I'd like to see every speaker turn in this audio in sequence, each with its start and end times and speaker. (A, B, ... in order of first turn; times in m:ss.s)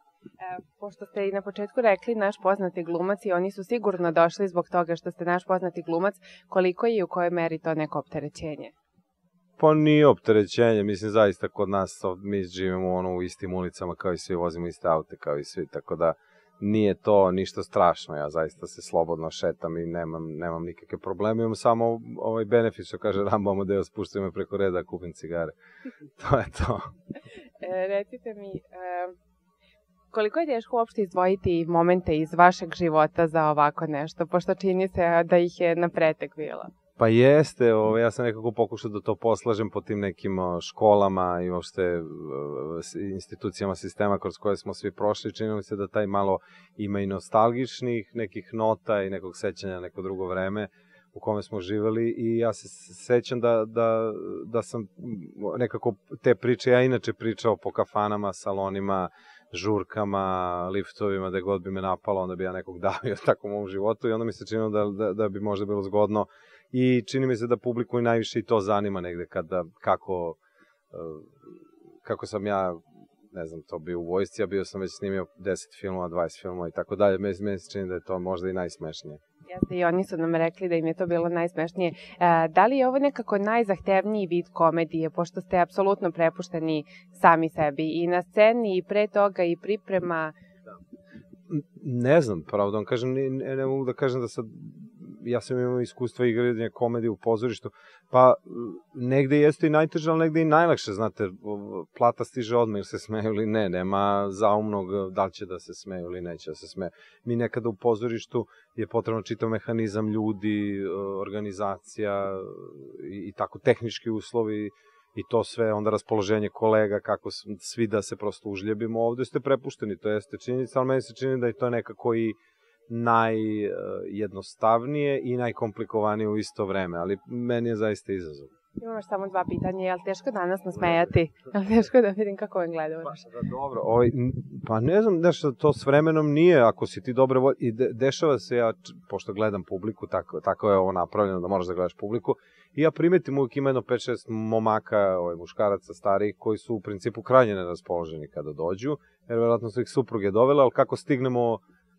0:00.4-0:08.7 A
0:09.6-0:25.5 B
0:26.2-0:26.9 B
0:27.6-0:29.1 A
0:30.1-0:36.7 A
0:37.0-1:10.4 B
1:10.9-1:11.5 B
1:12.0-1:12.8 B
1:13.3-1:19.2 B
1:19.5-1:30.3 A
1:31.5-2:02.4 B
2:02.9-2:08.5 B
2:08.8-2:13.2 A
2:13.1-2:31.6 B